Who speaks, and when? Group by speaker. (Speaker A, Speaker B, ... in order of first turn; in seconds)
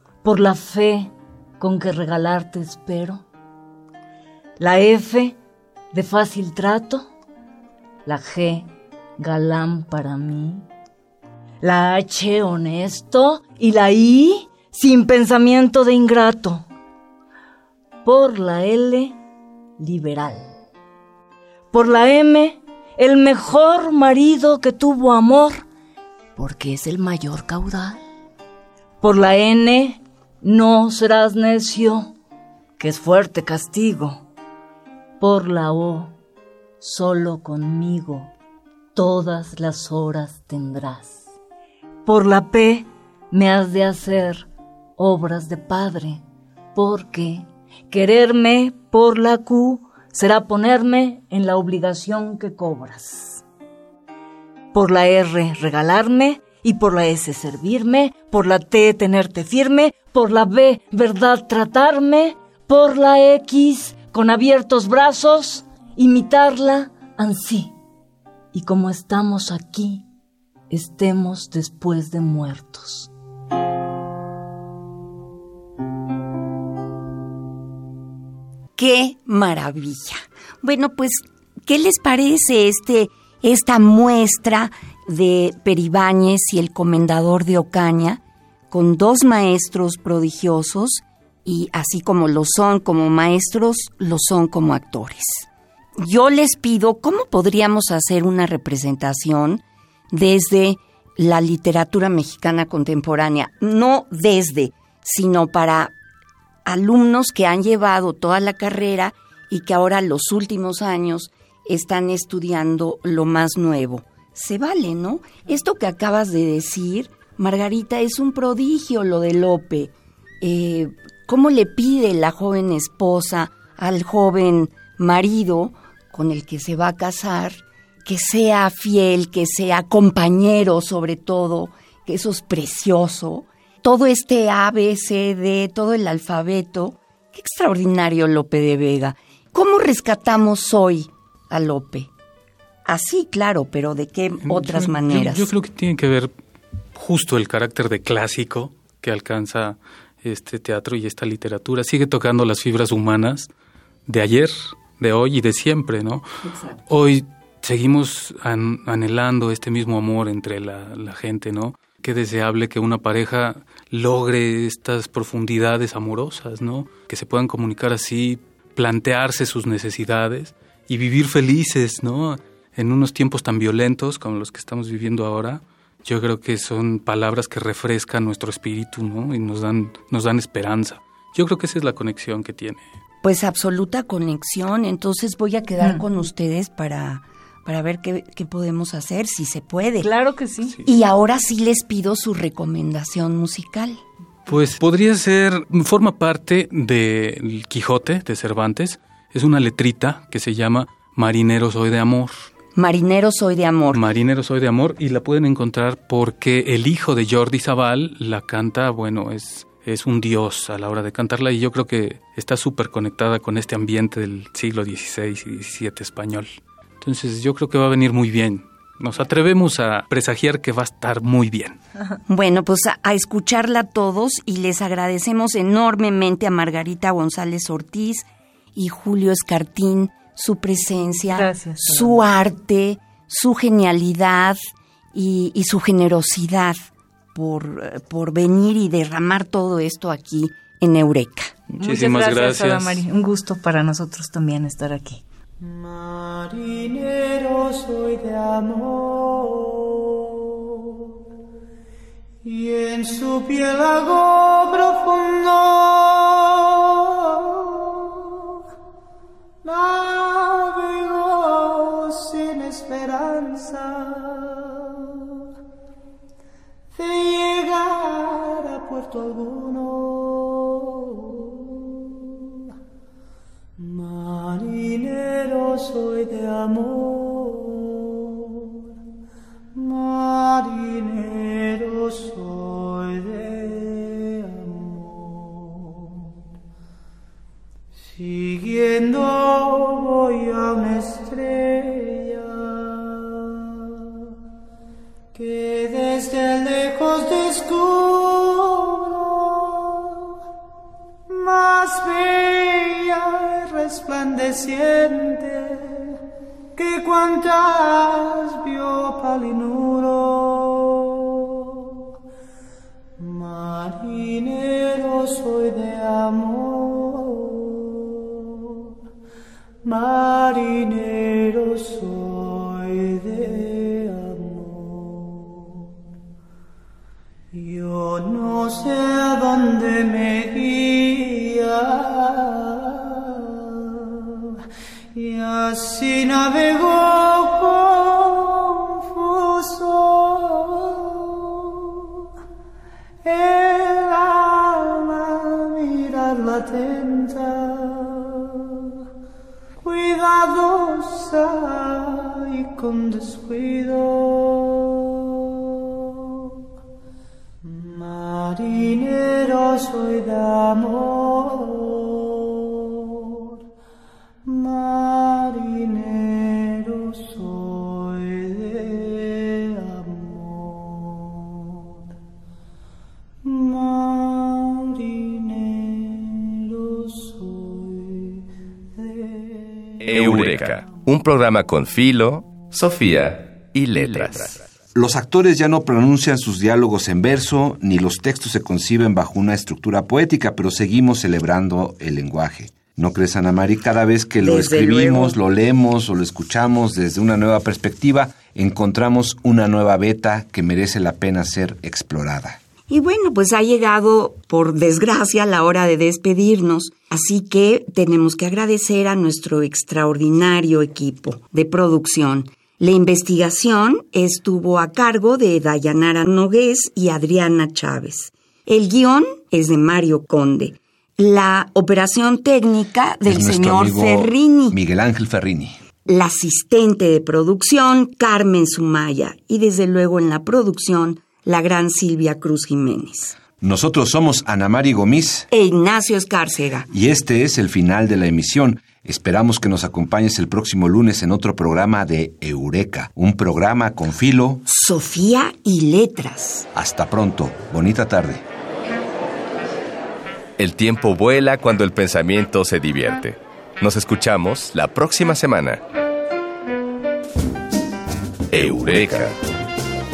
Speaker A: 0.2-3.2, 4.6-5.3, 5.9-7.1, 8.0-8.7, 9.2-10.6, 11.6-16.7, 18.0-19.1, 19.8-20.5, 21.7-25.6, 26.4-28.0, 29.0-32.1, 32.8-34.2, 35.2-36.1, 36.8-38.3, 38.9-41.3, 42.0-44.4, 45.0-46.2, 46.7-53.4, 54.7-67.7, 68.5-70.0, 70.7-73.1, 190.0-190.8, 231.3-232.2, 241.8-245.2
Speaker B: 78.8-105.9, 106.7-142.1, 142.8-145.5, 183.2-190.1, 190.8-194.0, 202.7-204.0, 222.3-234.6, 235.1-236.8, 237.3-241.5, 394.4-395.4, 402.9-424.8, 426.1-433.4, 435.5-436.9, 444.6-446.6
Speaker C: 144.4-146.3, 146.9-153.5, 154.1-156.2, 156.9-182.8, 194.5-202.4, 203.9-221.8, 241.7-243.0
Speaker D: 245.6-251.1, 252.4-258.6, 259.6-265.4, 266.9-272.7, 273.8-278.9, 279.7-286.3, 288.0-294.3, 295.3-300.3, 301.3-306.2, 306.7-312.0, 313.2-318.9, 319.8-325.9, 327.5-334.6, 335.1-342.2, 343.2-348.9, 349.8-356.6, 357.6-363.5, 364.4-371.9, 373.4-378.4, 379.0-380.8
Speaker E: 380.0-384.6, 450.6-455.8, 458.5-459.3
Speaker F: 384.9-402.6, 423.2-425.8, 433.6-435.5, 436.9-444.6, 446.7-448.4